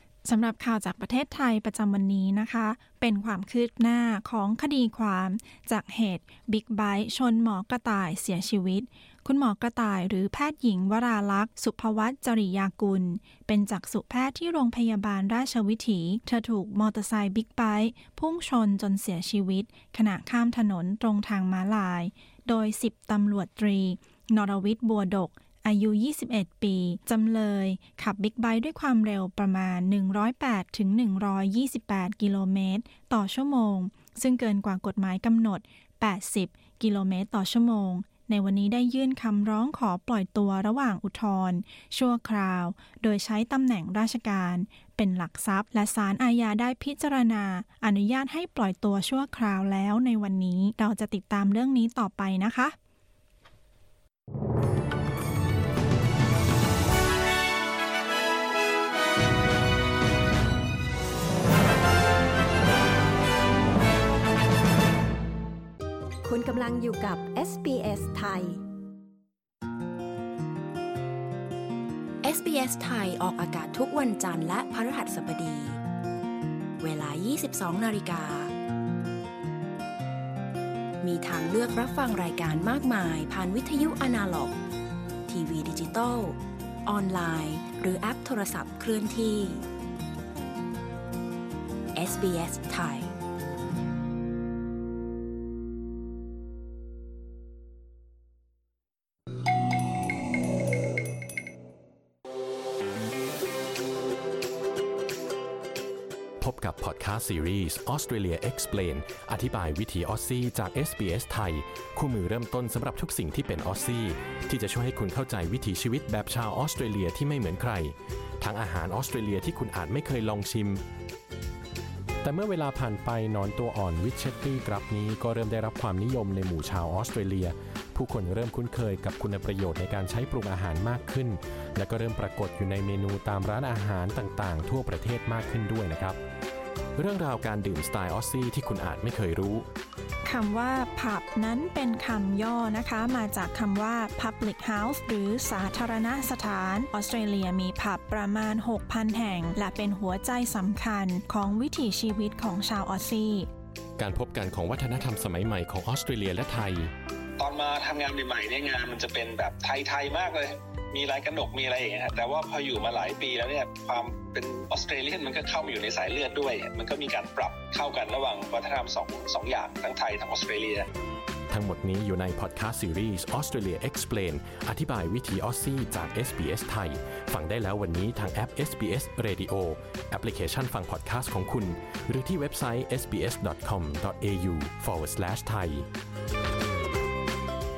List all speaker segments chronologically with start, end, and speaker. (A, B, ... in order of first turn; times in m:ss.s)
0:00.2-0:52.8 A
1:06.2-1:08.6 B
1:12.2-1:15.8 C
1:16.8-1:18.5 C
1:21.0-1:24.6 C
1:25.3-1:29.6 C
1:31.9-1:33.1 C
1:46.4-2:00.8 D
2:02.2-2:16.2 D
2:17.0-2:19.7 D
2:20.2-2:33.5 A
2:34.0-2:36.9 D
2:37.4-2:50.8 E
2:51.5-3:05.9 D